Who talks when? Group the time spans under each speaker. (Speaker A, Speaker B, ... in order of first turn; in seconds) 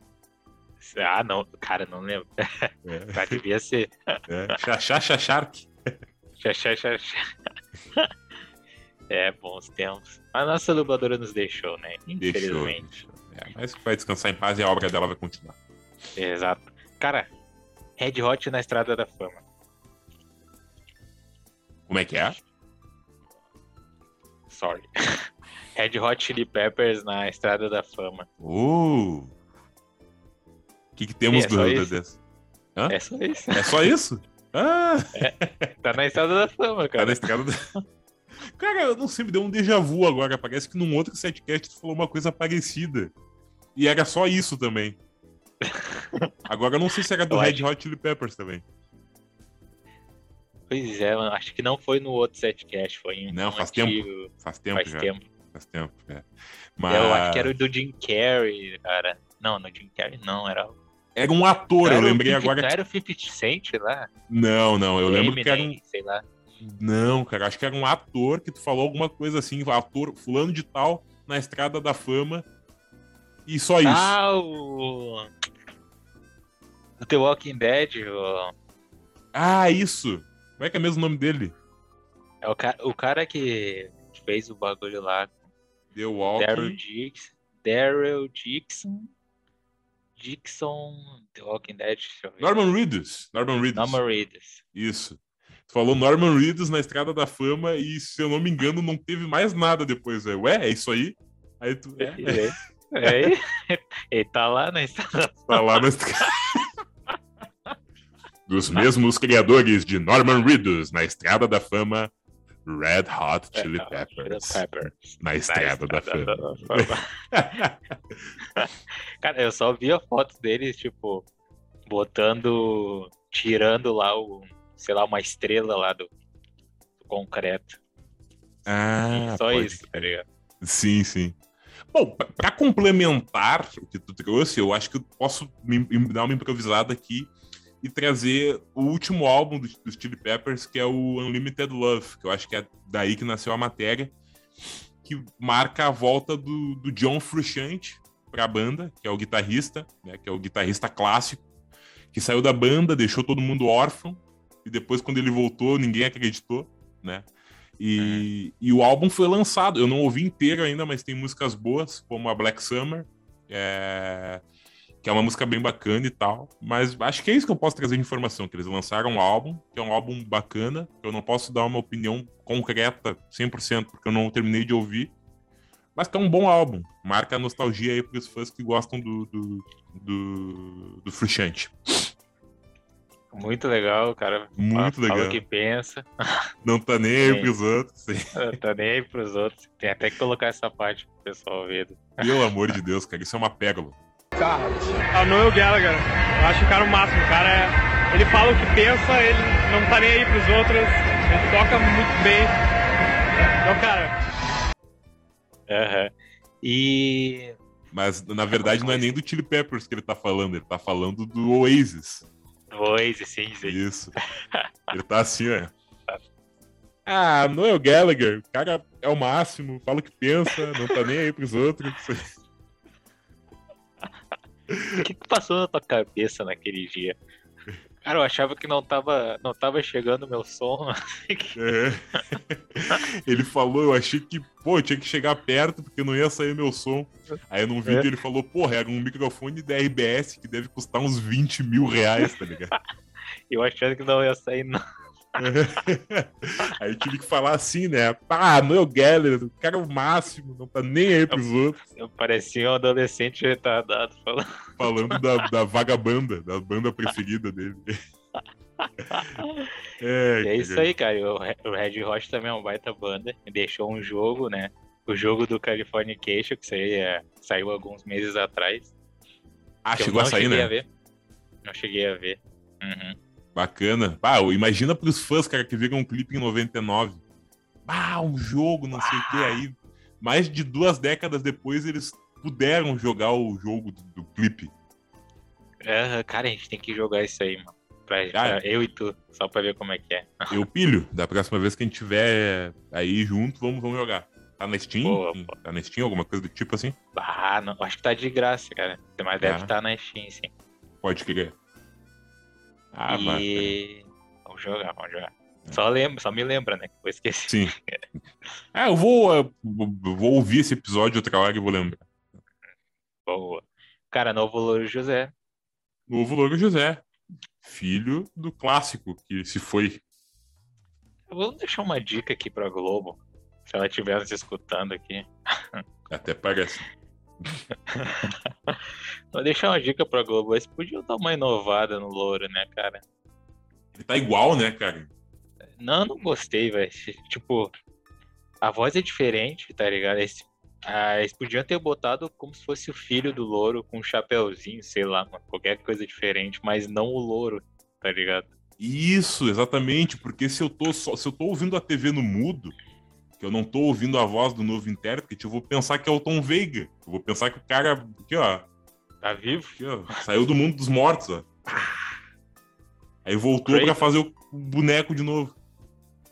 Speaker A: 0.8-4.5, 6.4-7.2, 9.1-12.8, 16.1-17.3, 18.0-19.4, 24.5-28.3, 31.3-31.9, 32.9-33.9, 35.1-37.3, 45.6-46.3, 47.3-47.6, 50.7-55.2, 56.9-60.8, 61.8-64.1, 65.0-66.2, 73.8-75.3, 77.0-78.5, 82.4-85.3, 86.4-89.1, 90.2-92.5, 93.7-94.6, 102.0-106.3, 113.5-117.0, 118.5-121.2, 121.9-126.1, 127.0-127.8, 129.1-130.2, 158.0-158.3, 183.3-186.1, 187.2-187.5, 188.3-192.5, 205.7-207.6, 208.6-209.1, 212.7-213.8, 225.0-227.2, 228.0-231.6, 243.5-244.8, 251.3-255.2, 258.8-259.7, 260.4-268.9, 269.9-270.9, 271.6-273.2, 278.9-279.6, 285.8-290.5, 295.0-295.5, 297.1-300.5, 303.1-308.0, 313.2-315.3, 321.3-325.8, 327.9-333.0, 335.8-337.7, 338.6-348.5, 359.2-360.2, 363.6-364.1
Speaker B: 2.9-3.4, 4.3-5.7, 12.2-15.6, 21.9-22.4, 28.4-29.3, 31.0-32.2, 33.5-35.7, 37.0-37.7, 38.5-43.1, 43.7-45.0, 46.5-48.6, 53.3-56.2, 56.8-57.5, 61.1-62.7, 64.3-65.8, 66.6-72.5, 73.5-74.2, 79.3-81.5, 85.9-86.8, 92.4-94.0, 94.7-102.5, 103.0-103.3, 105.5-106.7, 108.5-112.1, 112.6-114.6, 115.2-118.2, 128.7-131.4, 131.9-137.3, 137.8-144.1, 145.0-151.4, 152.1-157.3, 157.8-164.4, 165.0-175.1, 175.9-182.1, 184.6-185.4, 186.6-188.3, 192.2-194.0, 207.9-212.2, 213.6-214.1, 214.9-215.7, 217.1-222.3, 224.7-225.0, 231.6-242.7, 245.4-251.8, 254.8-257.9, 260.0-260.9, 269.8-270.7, 273.5-277.2, 277.9-284.7, 288.3-288.6, 290.5-296.9, 299.4-299.7, 301.0-301.5, 302.9-303.8, 307.5-307.7, 308.7-312.0, 316.1-317.0, 317.6-320.0, 326.1-326.9, 333.9-335.1, 348.8-352.7, 353.4-358.6, 359.7-361.9, 363.2-365.5
Speaker C: 194.4-202.5, 203.6-204.1